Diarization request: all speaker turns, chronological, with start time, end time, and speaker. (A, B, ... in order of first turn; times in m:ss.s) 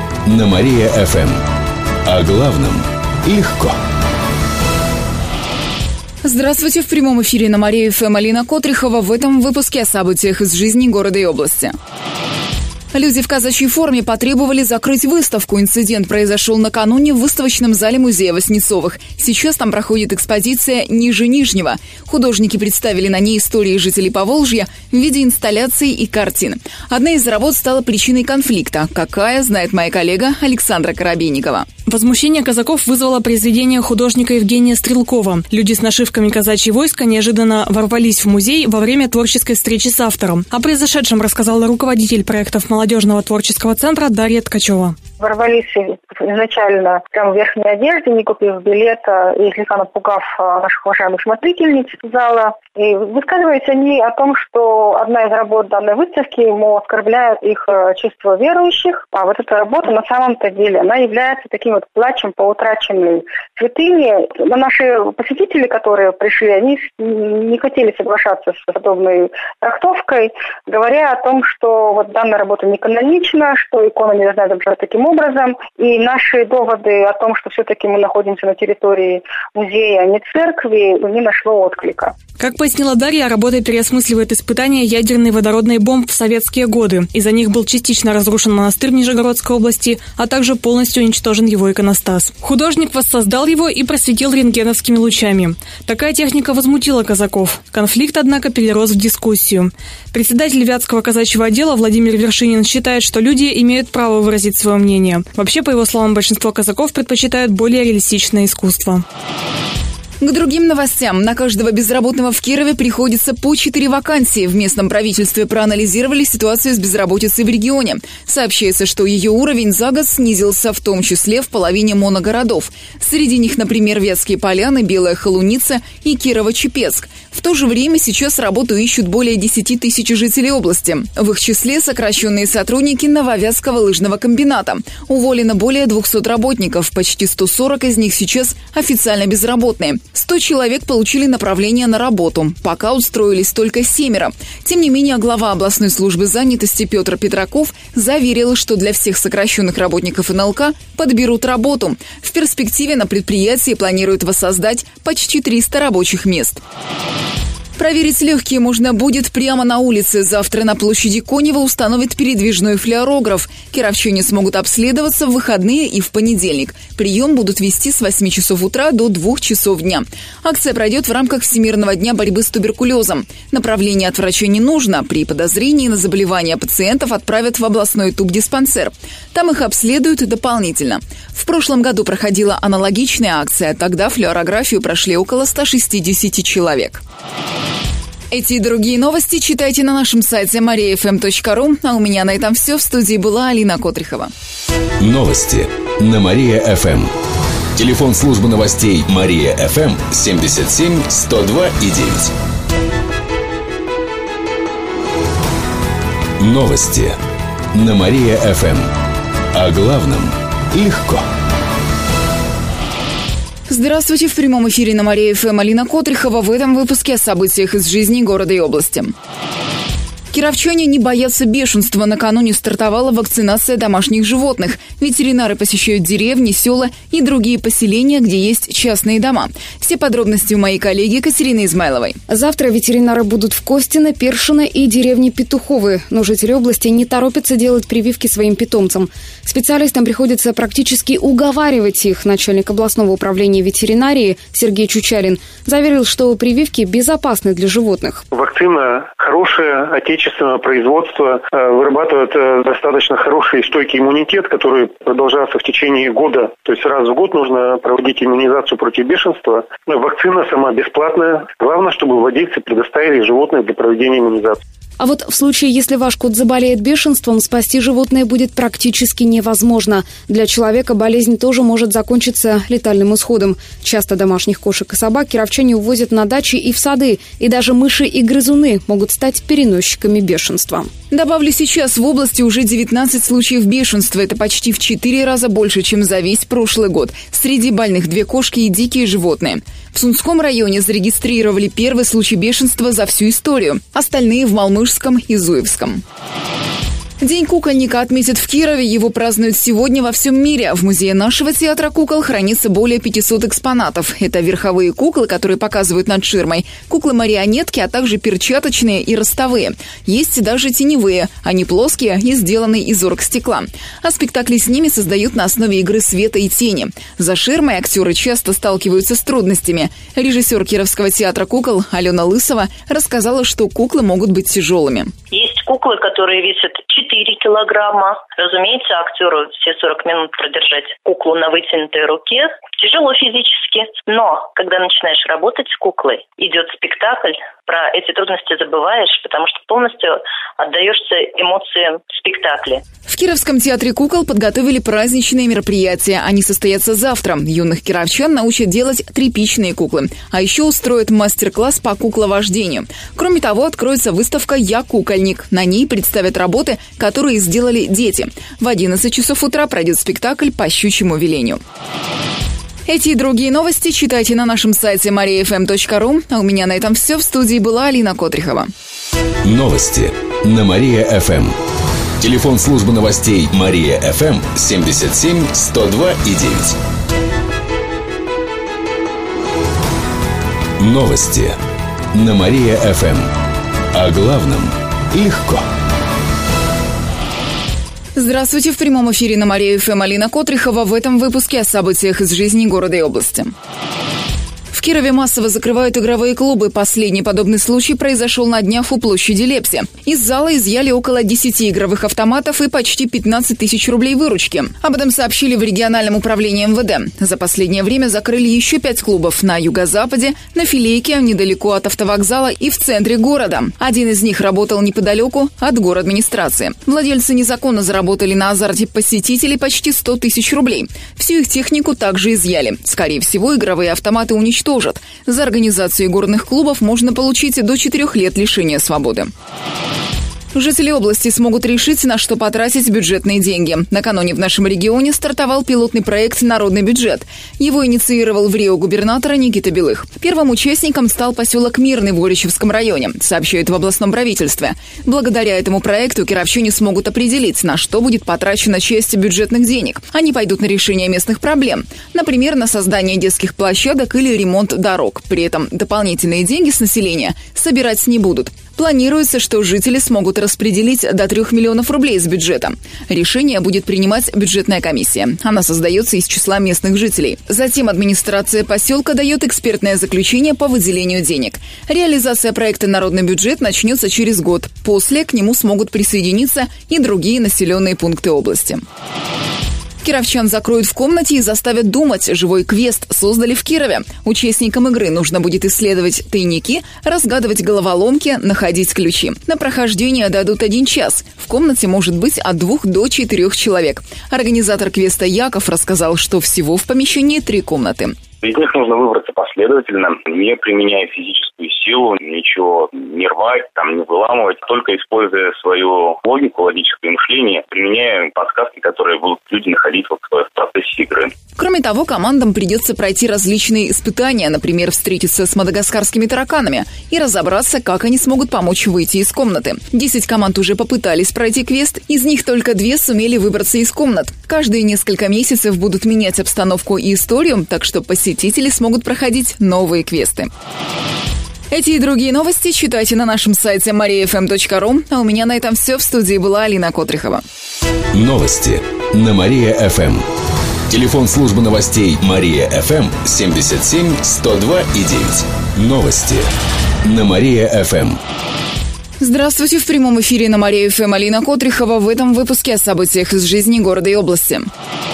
0:00.3-0:01.4 A
0:02.1-0:03.8 A
0:06.2-0:11.7 B
0:12.9-0:31.7 B
0:31.9-0:45.0 C
0:45.2-1:22.2 D
1:22.4-1:49.0 C
1:50.2-2:36.6 B
2:37.8-3:07.0 B
3:08.3-3:14.3 B
3:15.0-3:17.1 A
3:17.8-3:22.3 A
3:26.4-3:27.2 A
3:27.7-3:28.9 A
3:29.5-3:31.2 A
3:33.7-3:39.1 B
3:40.3-3:52.2 B
3:52.3-4:08.2 E
4:08.3-4:24.6 F
4:25.0-4:40.9 E
4:41.1-4:56.0 B
4:57.2-5:25.1 B
5:25.3-5:42.8 G
5:43.1-6:01.6 B
6:02.9-6:08.7 B
6:09.4-6:11.6 A
6:12.2-6:16.8 A
6:20.8-6:21.6 A
6:22.1-6:23.3 A
6:23.9-6:25.6 A
6:28.2-6:33.5 B
6:34.7-7:09.3 B
7:10.5-7:58.8 B
8:00.0-8:18.2 B
8:18.4-8:31.3 H
8:31.6-8:50.5 B
8:51.7-8:57.4 B
8:58.1-9:00.2 A
9:00.9-9:06.5 A
9:07.0-9:08.2 A
9:09.2-9:14.7 B